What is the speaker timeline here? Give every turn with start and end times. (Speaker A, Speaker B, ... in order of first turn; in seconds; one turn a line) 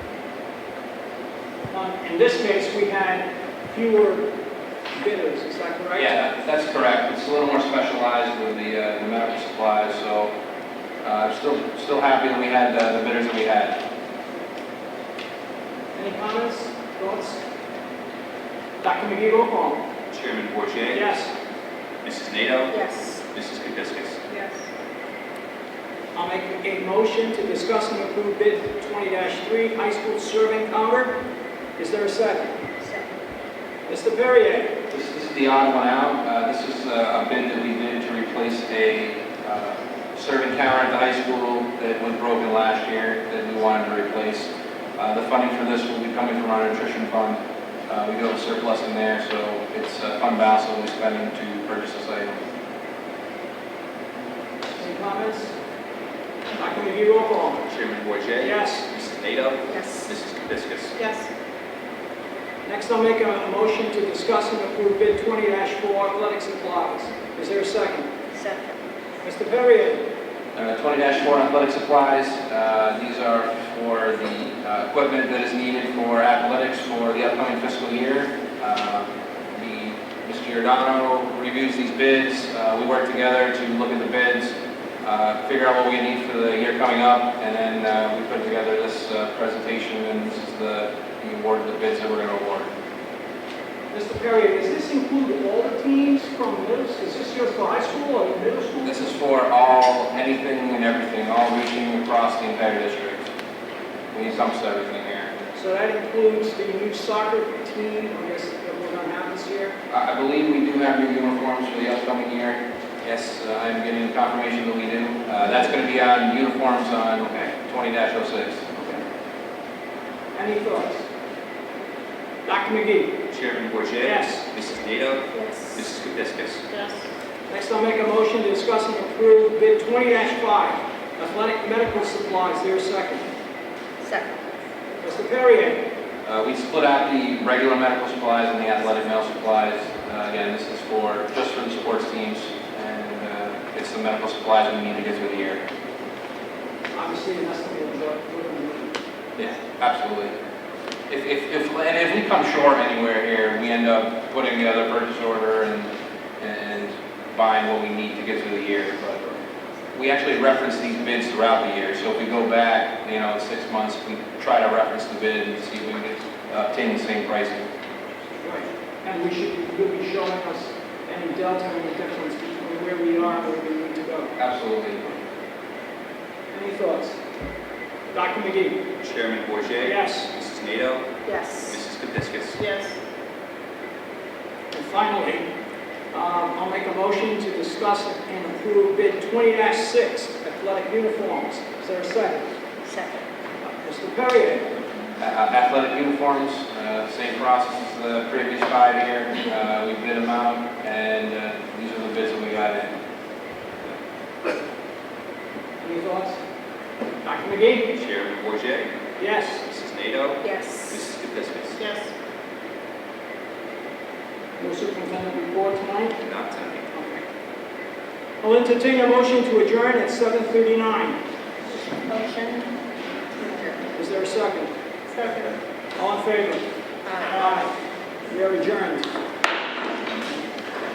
Speaker A: 1.7-4.3
Speaker A: 4.9-6.1
Speaker B: 6.0-10.3
Speaker B: 11.0-13.8
Speaker A: 15.9-17.4
Speaker A: 18.8-19.8
Speaker C: 20.1-21.1
Speaker A: 20.9-21.3
Speaker C: 22.0-22.7
Speaker D: 22.7-23.2
Speaker C: 23.3-24.2
Speaker D: 24.3-24.7
Speaker A: 26.1-31.2
Speaker A: 31.8-32.6
Speaker D: 32.8-33.1
Speaker A: 33.9-34.7
Speaker B: 34.9-52.4
Speaker A: 54.7-55.5
Speaker A: 56.6-57.7
Speaker C: 57.7-61.0
Speaker A: 58.4-58.9
Speaker D: 59.7-60.1
Speaker D: 61.0-61.3
Speaker A: 62.6-68.1
Speaker D: 68.3-68.8
Speaker A: 69.2-70.0
Speaker B: 70.6-92.7
Speaker A: 93.9-99.1
Speaker B: 98.8-103.3
Speaker B: 104.1-105.3
Speaker A: 105.5-109.8
Speaker B: 109.9-118.7
Speaker A: 117.2-117.5
Speaker A: 118.8-119.0
Speaker A: 120.3-121.0
Speaker A: 122.5-123.2
Speaker C: 123.3-126.7
Speaker A: 124.0-124.4
Speaker D: 125.3-125.8
Speaker D: 126.7-127.1
Speaker A: 127.5-133.3
Speaker D: 134.0-134.4
Speaker A: 135.0-135.8
Speaker B: 136.2-145.6
Speaker A: 146.9-148.9
Speaker B: 149.4-150.3
Speaker B: 151.1-159.2
Speaker B: 159.9-167.7
Speaker A: 168.4-174.4
Speaker B: 174.4-175.1
Speaker A: 176.5-177.2
Speaker A: 178.1-178.8
Speaker C: 179.0-181.0
Speaker A: 179.8-180.3
Speaker D: 181.2-181.8
Speaker C: 181.7-182.6
Speaker D: 182.6-182.9
Speaker A: 184.7-185.5
Speaker A: 186.1-192.4
Speaker D: 192.8-193.2
Speaker A: 193.6-194.7
Speaker B: 195.2-203.0
Speaker A: 205.8-206.4
Speaker A: 207.2-207.9
Speaker C: 207.9-208.9
Speaker A: 209.2-209.6
Speaker C: 209.7-211.8
Speaker D: 210.4-210.9
Speaker D: 211.8-212.1
Speaker A: 214.6-216.2
Speaker C: 216.2-216.9
Speaker A: 216.9-217.2
Speaker A: 218.4-221.2
Speaker D: 221.8-222.7
Speaker D: 223.4-223.9
Speaker A: 223.9-224.7
Speaker D: 225.1-225.6
Speaker A: 226.0-226.7
Speaker D: 227.1-227.5
Speaker A: 227.2-227.7
Speaker A: 228.3-229.1